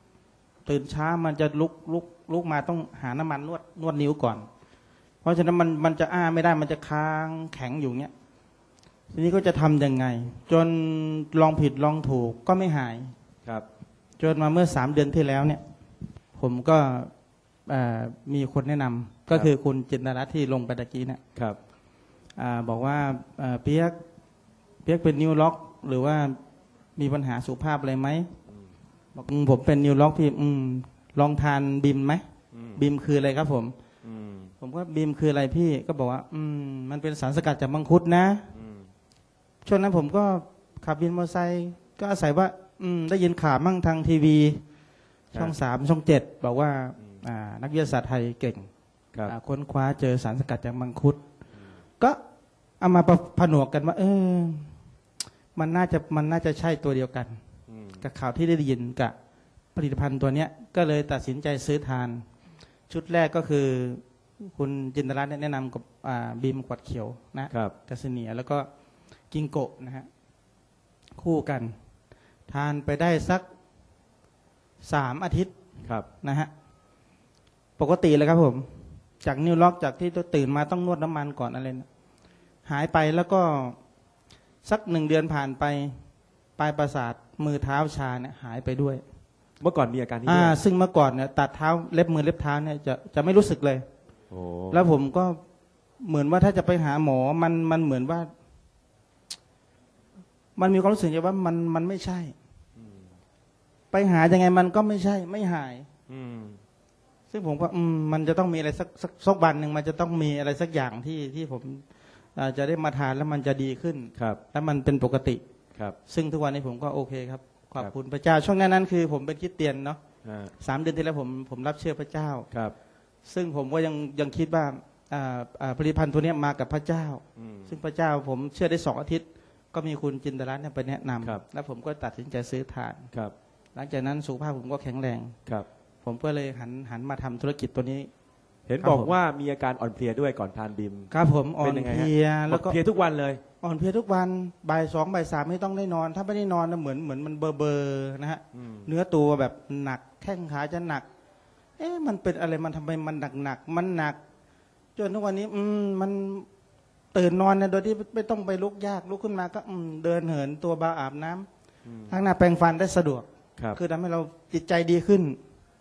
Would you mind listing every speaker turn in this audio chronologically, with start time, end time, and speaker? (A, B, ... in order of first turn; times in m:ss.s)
0:00.6-0:04.5 A
0:05.2-0:08.1 A
0:09.1-0:13.1 A
0:14.2-0:15.6 A
0:16.4-0:17.1 A
0:17.7-0:21.2 A
0:22.4-0:24.0 A
0:24.8-0:26.4 A
0:27.0-0:28.3 A
0:29.2-0:32.2 A
0:32.5-0:32.8 B
0:32.8-0:33.7 A
0:34.0-0:34.5 B
0:34.6-0:38.4 A
0:38.5-0:38.9 B
0:39.6-0:44.6 A
0:45.3-0:48.7 A
0:49.2-0:51.2 A
0:52.8-0:54.7 A
0:55.6-0:57.4 A
0:57.7-0:58.0 B
0:58.0-0:59.1 A
0:59.8-1:02.2 A
1:02.9-1:08.7 A
1:09.3-1:10.1 A
1:11.2-1:11.8 A
1:12.5-1:13.4 A
1:14.8-1:15.5 A
1:16.2-1:16.5 A
1:17.8-1:21.9 A
1:22.7-1:23.8 A
1:24.6-1:26.0 A
1:26.6-1:29.0 A
1:29.6-1:30.6 B
1:30.2-1:33.8 A
1:34.3-1:34.9 B
1:34.7-1:35.4 A
1:36.0-1:38.3 A
1:40.6-1:42.3 A
1:42.8-1:43.1 B
1:43.9-1:45.9 A
1:46.1-1:46.6 B
1:47.3-1:51.8 A
1:52.4-1:55.4 A
1:54.2-1:54.4 B
1:56.1-2:00.0 A
2:00.2-2:00.5 B
2:00.6-2:02.5 A
2:02.5-2:02.8 B
2:03.3-2:13.1 A
2:07.4-2:07.7 B
2:13.8-2:15.4 A
2:16.0-2:18.1 A
2:18.7-2:23.4 B
2:18.8-2:19.1 A
2:21.1-2:22.8 A
2:23.6-2:31.0 A
2:28.5-2:28.9 B
2:31.8-2:34.2 A
2:35.0-2:36.5 A
2:37.1-2:41.5 A
2:41.8-2:42.2 B
2:42.1-2:45.4 A